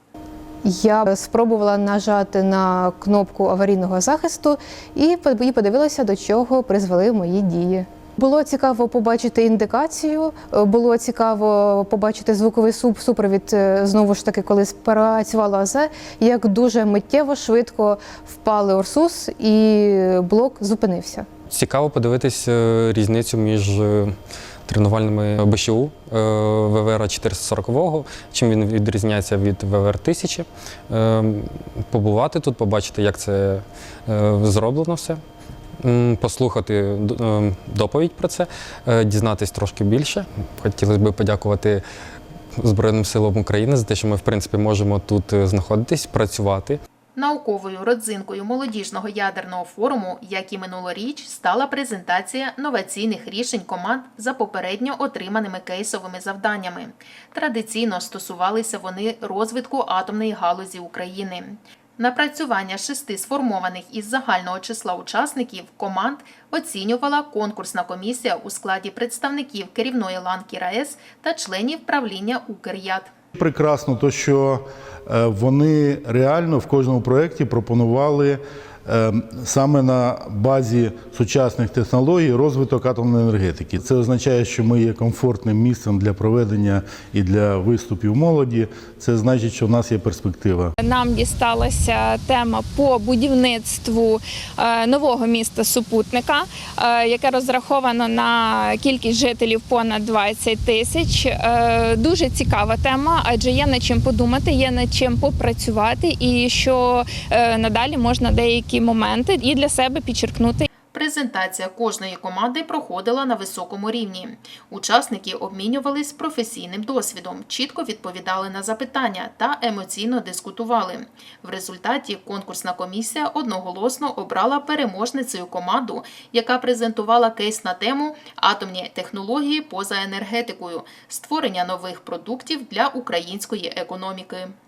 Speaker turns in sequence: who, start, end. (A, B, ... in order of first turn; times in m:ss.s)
0:00.6-0:21.3 A
0:21.5-0:24.1 B
0:24.7-0:35.2 B
0:35.8-0:41.8 B
0:42.6-0:46.8 B
0:47.2-1:13.1 C
1:13.3-1:30.7 D
1:30.8-1:50.7 E
1:50.9-2:14.5 C